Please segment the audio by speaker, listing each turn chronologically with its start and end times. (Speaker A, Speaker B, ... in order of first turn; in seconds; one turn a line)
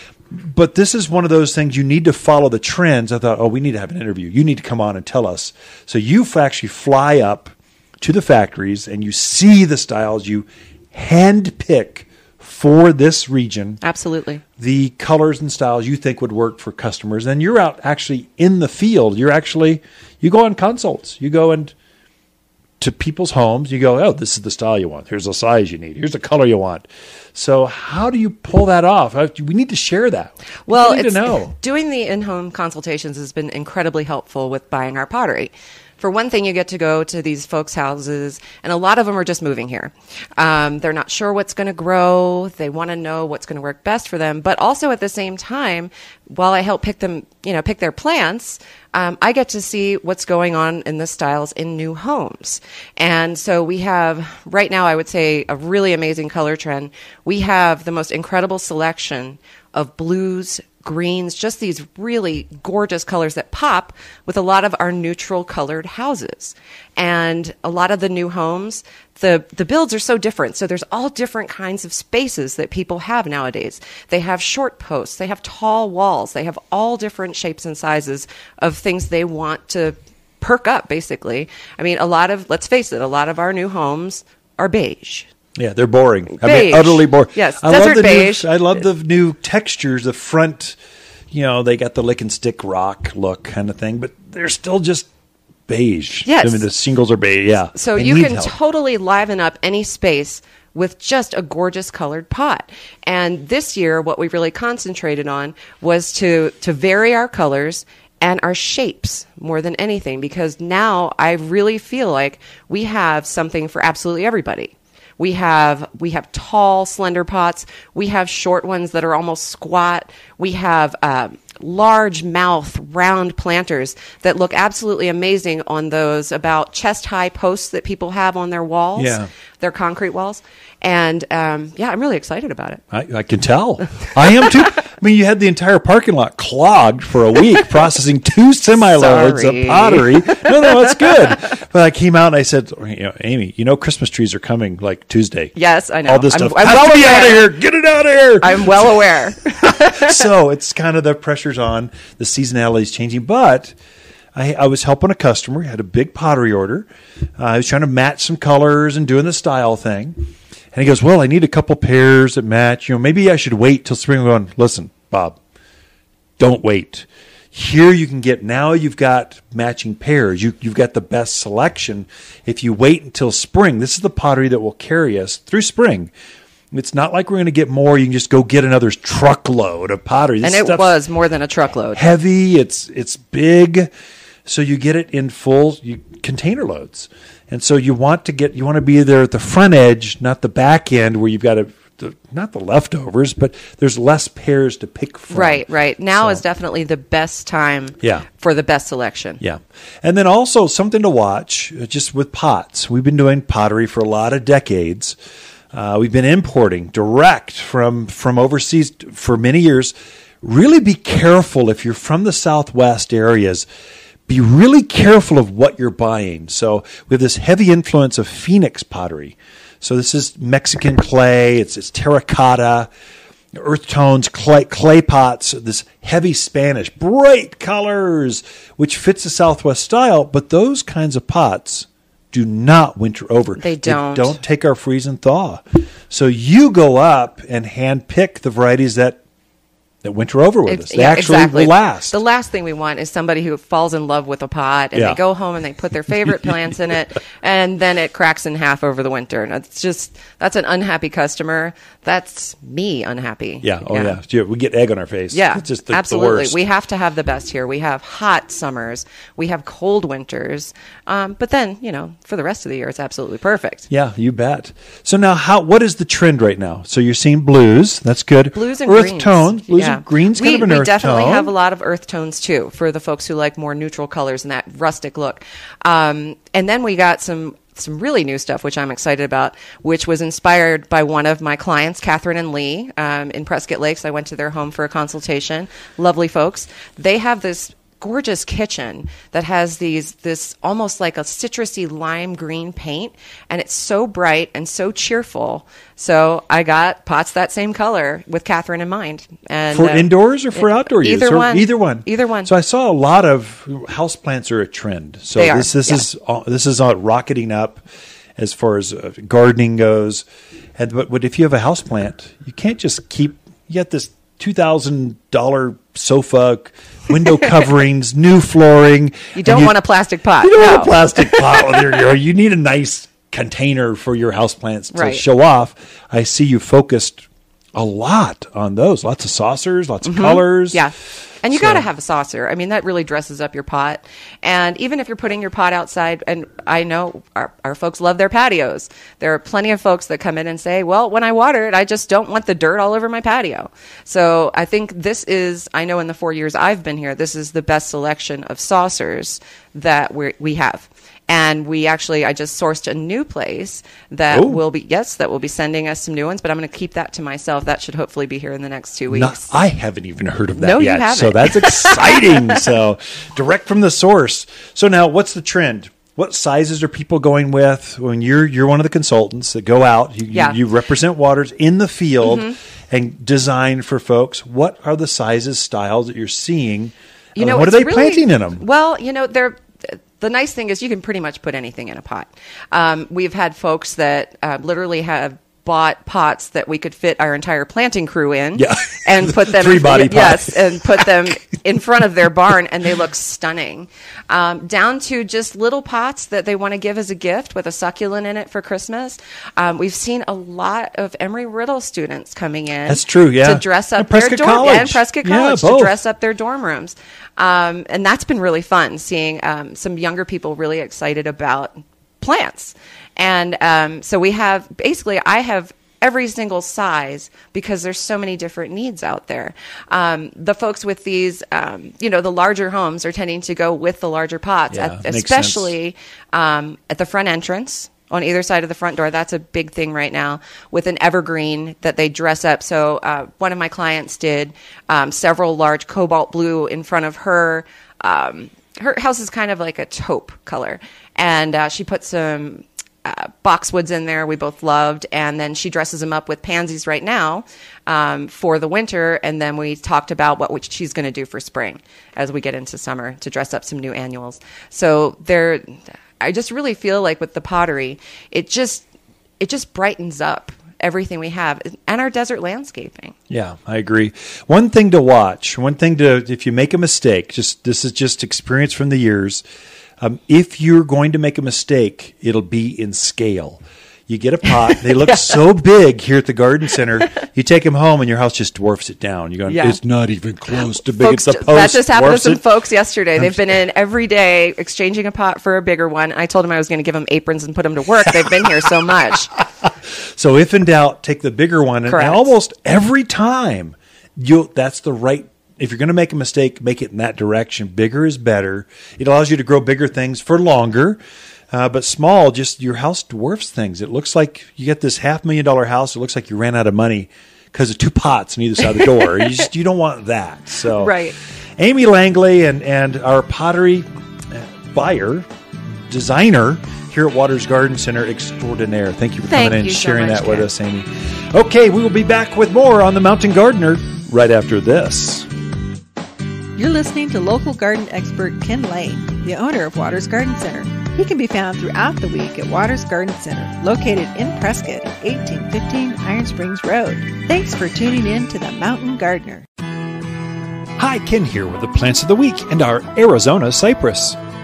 Speaker A: 0.3-13.8
Speaker B: 13.8-14.4
Speaker A: 14.6-21.7
Speaker A: 22.8-31.5
Speaker B: 30.6-85.3
Speaker A: 85.5-90.8
Speaker B: 86.4-88.5
Speaker A: 91.3-95.1
Speaker A: 95.7-98.5
Speaker B: 96.2-96.7
Speaker B: 97.7-132.8
Speaker A: 128.9-129.3
Speaker A: 132.9-145.5
Speaker B: 138.8-141.4
Speaker B: 145.6-147.5
Speaker A: 146.1-153.7
Speaker B: 148.4-150.3
Speaker A: 154.3-165.4
Speaker A: 166.4-176.1
Speaker A: 176.7-181.0
Speaker B: 180.4-182.1
Speaker A: 181.9-183.9
Speaker A: 184.4-196.4
Speaker B: 195.3-199.4
Speaker A: 198.0-198.3
Speaker A: 199.4-205.2
Speaker A: 205.7-213.6
Speaker A: 214.3-222.9
Speaker A: 223.5-239.2
Speaker B: 233.6-234.4
Speaker A: 240.0-242.2
Speaker B: 240.7-254.2
Speaker A: 244.9-245.2
Speaker A: 246.1-246.8
Speaker A: 253.6-256.6
Speaker B: 255.3-263.9
Speaker A: 263.9-271.5
Speaker B: 268.5-302.5
Speaker A: 299.7-307.8
Speaker B: 305.4-306.1
Speaker A: 308.4-310.2
Speaker A: 310.8-319.8
Speaker B: 319.3-321.8
Speaker A: 320.4-330.8
Speaker B: 324.9-325.2
Speaker B: 330.1-359.6
Speaker A: 331.5-331.9
Speaker A: 354.3-354.6
Speaker A: 359.1-378.6
Speaker B: 360.6-362.6
Speaker B: 370.3-370.6
Speaker B: 372.2-372.6
Speaker B: 377.4-458.9
Speaker A: 388.6-391.1
Speaker A: 402.9-406.0
Speaker A: 424.7-425.7
Speaker B: 459.4-463.1
Speaker A: 463.3-469.4
Speaker A: 470.0-482.4
Speaker B: 474.5-475.4
Speaker B: 479.5-479.8
Speaker B: 480.6-489.4
Speaker A: 488.1-488.7
Speaker A: 489.4-501.0
Speaker B: 491.9-492.3
Speaker A: 501.5-525.3
Speaker B: 510.7-511.1
Speaker B: 519.3-520.5
Speaker C: 526.5-539.5
Speaker A: 540.8-544.2